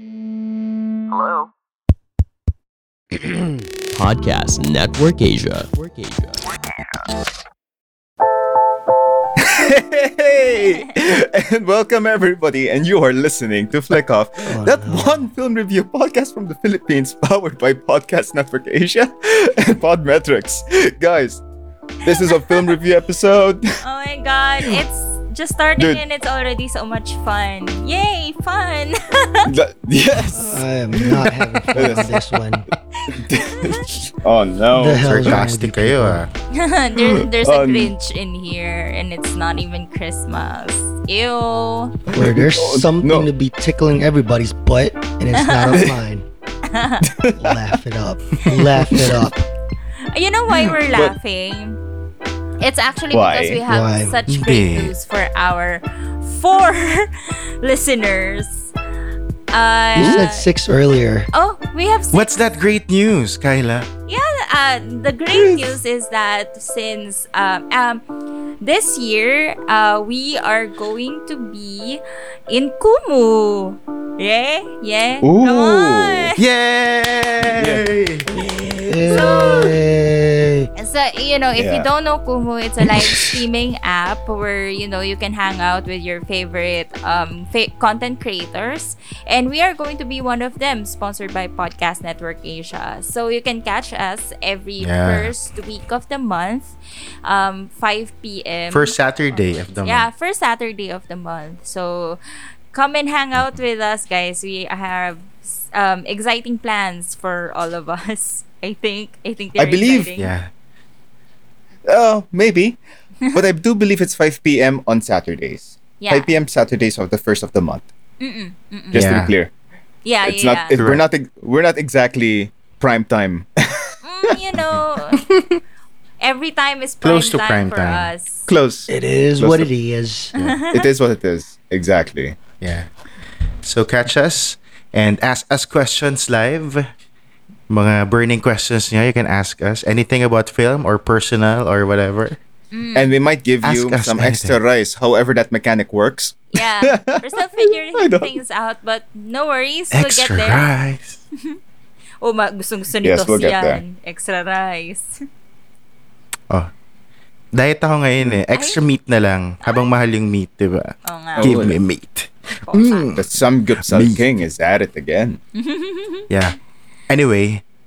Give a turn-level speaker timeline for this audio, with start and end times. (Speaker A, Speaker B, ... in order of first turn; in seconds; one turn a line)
Speaker A: 1.1-1.5
Speaker A: 3.2-6.5
Speaker B: 9.4-21.4
Speaker C: 10.3-10.9
Speaker D: 14.5-15.2
Speaker B: 22.0-23.8
Speaker C: 22.1-22.6
Speaker C: 23.8-29.5
Speaker B: 29.5-32.3
Speaker D: 30.3-32.7
Speaker C: 33.0-33.9
Speaker B: 33.1-35.5
Speaker D: 34.7-36.2
Speaker E: 35.0-36.3
Speaker C: 36.5-42.0
Speaker B: 37.4-37.9
Speaker D: 42.1-46.2
Speaker B: 42.1-43.3
Speaker C: 45.4-45.7
Speaker B: 45.7-46.0
Speaker C: 46.7-47.1
Speaker B: 47.1-47.4
Speaker D: 47.4-49.4
Speaker C: 50.1-51.8
Speaker C: 52.6-58.7
Speaker B: 53.1-53.6
Speaker D: 53.6-54.2
Speaker E: 54.3-54.9
Speaker C: 59.5-60.5
Speaker D: 60.0-61.3
Speaker B: 60.0-60.2
Speaker C: 61.3-62.5
Speaker E: 62.1-63.9
Speaker C: 64.1-68.0
Speaker B: 65.3-65.7
Speaker C: 68.6-76.4
Speaker B: 75.2-76.3
Speaker E: 76.4-78.3
Speaker B: 77.4-77.8
Speaker D: 78.3-80.7
Speaker C: 79.0-79.8
Speaker C: 80.8-96.7
Speaker B: 81.6-81.9
Speaker E: 94.8-95.3
Speaker C: 97.2-99.0
Speaker E: 98.7-100.1
Speaker C: 99.8-102.2
Speaker C: 102.7-110.3
Speaker B: 109.6-110.1
Speaker E: 110.2-110.5
Speaker B: 111.9-112.8
Speaker B: 113.3-117.9
Speaker C: 116.0-116.3
Speaker C: 118.2-119.1
Speaker B: 118.9-119.5
Speaker E: 119.0-119.3
Speaker C: 120.0-120.8
Speaker B: 120.2-124.0
Speaker E: 120.8-121.0
Speaker C: 124.0-125.2
Speaker E: 124.6-125.6
Speaker C: 126.2-128.5
Speaker E: 127.0-128.1
Speaker B: 128.5-129.7
Speaker D: 128.9-130.3
Speaker C: 130.4-130.9
Speaker B: 130.7-132.4
Speaker E: 132.6-132.9
Speaker E: 133.6-136.9
Speaker E: 137.7-142.4
Speaker C: 142.7-143.1
Speaker B: 142.9-148.3
Speaker E: 143.6-144.6
Speaker C: 146.5-150.7
Speaker E: 149.9-151.2
Speaker C: 152.2-155.2
Speaker B: 153.0-153.8
Speaker E: 157.5-163.3
Speaker C: 158.5-158.8
Speaker C: 161.1-161.6
Speaker B: 161.4-161.8
Speaker C: 162.5-163.1
Speaker B: 163.1-165.4
Speaker E: 163.8-164.2
Speaker C: 165.6-166.3
Speaker E: 166.3-166.6
Speaker E: 167.1-167.6